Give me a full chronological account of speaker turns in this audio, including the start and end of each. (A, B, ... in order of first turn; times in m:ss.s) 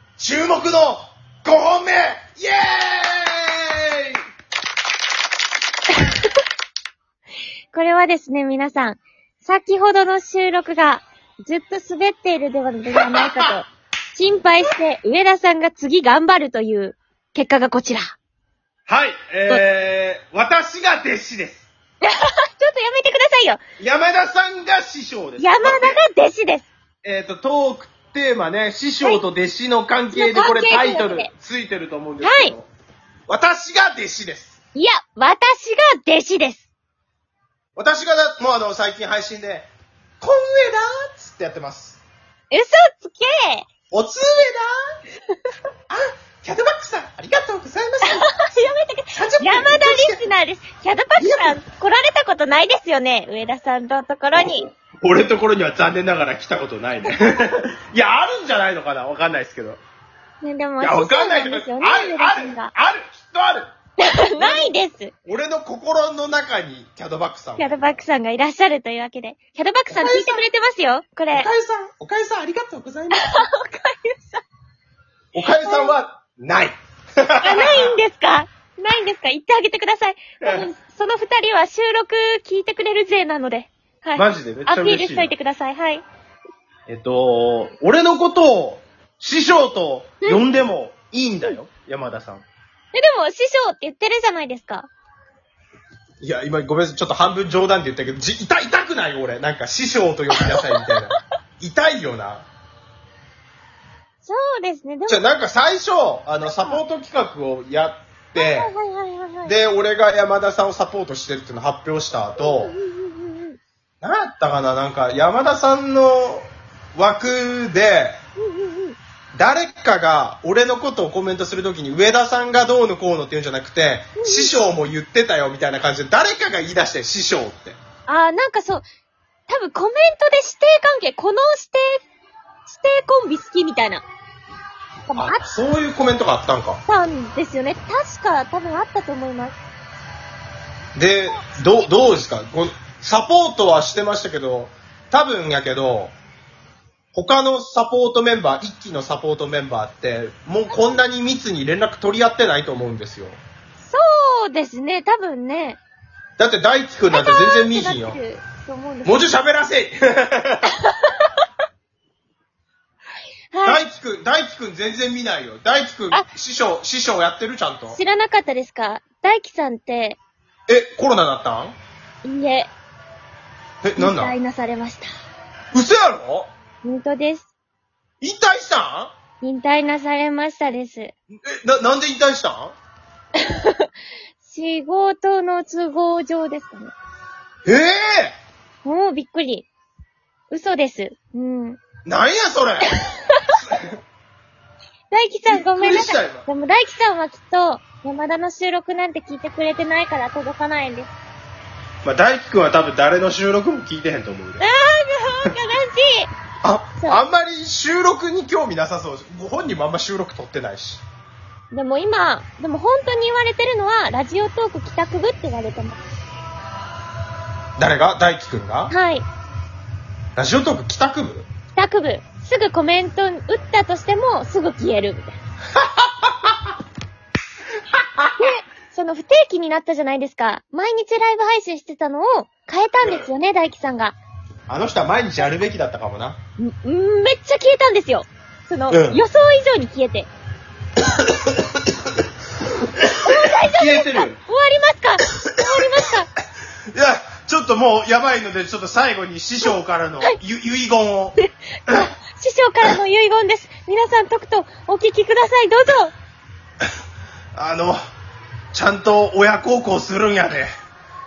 0:00.2-0:04.2 A
0:06.0-0:06.3 B
0:07.7-0:18.1 B
0:13.0-0:13.5 A
0:18.9-0:21.7 A
0:22.0-0:23.6 B
0:23.8-0:26.0 A
0:25.4-0:26.7 B
0:27.0-0:32.7 A
0:30.1-0:31.3 B
0:32.2-0:32.5 B
0:33.3-0:34.6 A
0:34.7-0:36.6 B
0:37.8-0:42.0 A
0:42.5-0:43.6 B
0:43.9-0:44.7 A
0:45.9-0:48.4 A
0:48.0-0:54.6 B
0:49.1-0:50.2 A
0:51.2-0:51.6 A
0:54.3-0:59.8 A
0:57.1-0:57.3 B
1:00.4-1:02.7 B
1:00.8-1:03.7 A
1:04.0-1:05.1 B
1:04.3-1:04.6 A
1:05.2-1:08.0 A
1:07.6-1:11.5 B
1:09.9-1:10.4 A
1:11.3-1:13.5 A
1:13.1-1:14.4 B
1:15.3-1:18.0 A
1:15.6-1:16.0 B
1:17.4-1:26.0 B
1:20.4-1:20.7 A
1:24.2-1:25.3 A
1:26.9-1:32.4 A
1:32.9-1:34.9 B
1:36.2-1:42.5 A
1:40.5-1:40.9 B
1:44.2-1:45.3 B
1:45.1-1:48.7 A
1:46.4-1:46.8 B
1:48.4-1:49.5 B
1:49.4-1:52.7 A
1:52.4-1:53.6 B
1:54.0-1:58.2 A
1:58.4-1:59.0 B
1:59.4-2:07.8 A
2:04.2-2:04.5 B
2:08.1-2:08.8 B
2:09.5-2:12.0 B
2:12.7-2:14.0 B
2:15.1-2:15.4 B
2:15.1-2:16.8 A
2:16.8-2:19.6 B
2:21.0-2:26.1 A
2:27.1-2:33.4 A
2:30.7-2:31.0 B
2:33.8-2:35.8 B
2:36.4-2:38.2 A
2:37.1-2:39.3 B
2:39.0-2:40.7 A
2:40.7-2:41.3 B
2:43.5-2:43.8 B
2:43.6-2:48.0 A
2:47.9-2:50.2 B
2:50.7-2:51.7 A
2:52.2-2:52.7 B
2:53.8-2:54.3 A
2:54.0-2:55.1 B
2:55.7-2:56.5 A
2:56.8-2:57.5 B
2:58.2-2:59.1 A
2:59.4-3:01.1 B
3:01.4-3:02.7 A
3:03.4-3:03.9 B
3:04.4-3:06.9 B
3:07.6-3:08.4 A
3:08.8-3:09.7 B
3:10.5-3:11.8 B
3:12.0-3:12.9 A
3:12.9-3:13.6 B
3:13.6-3:13.9 A
3:15.1-3:21.1 B
3:15.5-3:16.4 A
3:22.0-3:24.6 A
3:24.6-3:26.3 B
3:26.6-3:31.0 A
3:31.7-3:36.0 B
3:37.8-3:38.9 A
3:38.9-3:39.2 B
3:40.4-3:41.5 A
3:41.7-3:45.4 B
3:45.7-3:46.7 A
3:47.9-3:48.3 A
3:48.4-3:54.2 B
3:53.0-3:53.3 A
3:54.7-3:56.4 A
3:56.6-4:00.3 B
3:58.9-3:59.2 A
4:01.1-4:01.8 A
4:03.0-4:04.4 A
4:03.2-4:06.3 B
4:06.9-4:11.4 A
4:11.4-4:16.1 B
4:17.5-4:18.0 A
4:18.7-4:20.7 A